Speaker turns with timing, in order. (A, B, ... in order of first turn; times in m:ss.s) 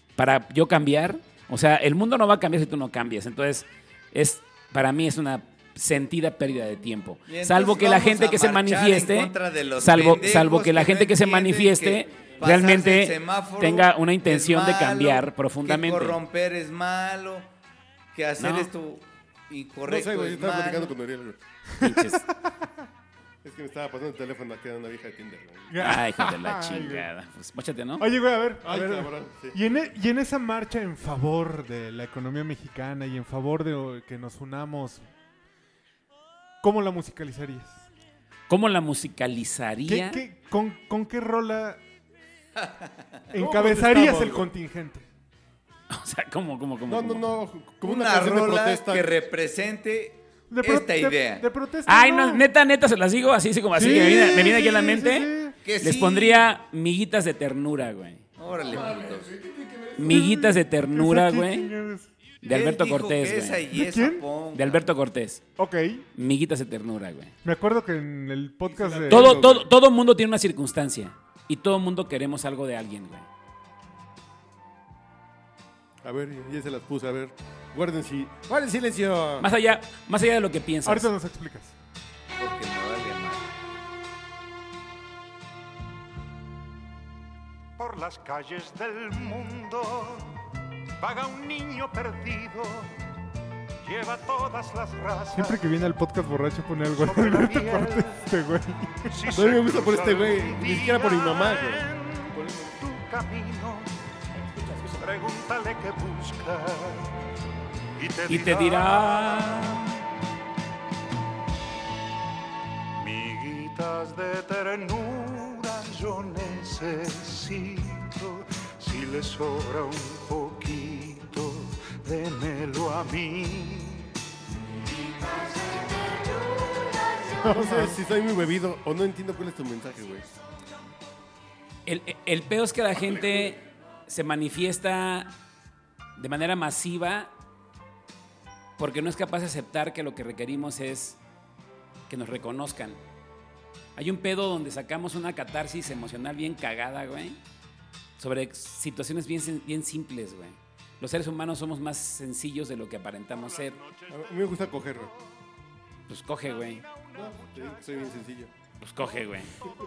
0:00.2-0:16.2 A
0:07.3-0:17.5 B
0:18.1-0:20.9 B
0:18.4-0:18.7 A
0:19.8-0:21.4 C
0:21.7-0:22.7 D
0:21.8-0:22.3 A
0:23.4-0:25.9 C
0:25.7-0:27.1 D
0:25.8-0:28.1 A
0:28.0-0:35.0 D
0:28.6-0:29.6 C
0:36.6-0:37.8 D
0:38.5-0:40.2 A
0:39.9-0:41.8 D
0:42.6-0:42.9 B
0:43.3-0:45.1 D
0:43.4-0:44.5 C
0:45.9-0:47.3 A
0:46.9-0:49.2 C
0:47.8-0:51.4 B
0:50.5-0:52.4 D
0:51.9-0:58.3 A
0:53.8-0:55.6 D
0:55.6-0:56.5 B
0:58.4-0:59.4 B
0:58.7-1:00.4 C
1:00.0-1:01.7 A
1:00.1-1:02.1 D
1:02.4-1:03.7 A
1:02.5-1:04.9 B
1:03.7-1:04.2 D
1:04.5-1:05.4 A
1:05.6-1:06.0 D
1:06.2-1:07.4 A
1:07.4-1:09.4 D
1:08.7-1:09.7 C
1:09.1-1:13.3 A
1:16.0-1:19.5 C
1:19.4-1:21.1 A
1:20.9-1:21.8 D
1:22.4-1:23.5 B
1:27.8-1:30.4 E
1:31.0-1:33.0 E
1:33.8-1:35.7 E
1:35.4-1:39.1 D
1:36.9-1:38.2 E
1:39.1-1:43.9 E
1:39.3-1:41.9 C
1:44.6-1:47.1 E
1:48.0-1:49.6 E
1:48.3-1:50.0 A
1:53.0-2:04.1 E
2:05.4-2:05.8 E
2:07.4-2:10.3 C
2:07.5-2:08.0 D
2:11.9-2:15.3 A
2:16.2-2:17.3 A
2:18.8-2:21.2 A
2:22.1-2:23.0 A
2:24.0-2:27.4 A
2:28.2-2:33.8 A
2:34.1-2:35.1 C
2:36.1-2:36.8 A
2:37.1-2:38.5 C
2:38.8-2:39.6 A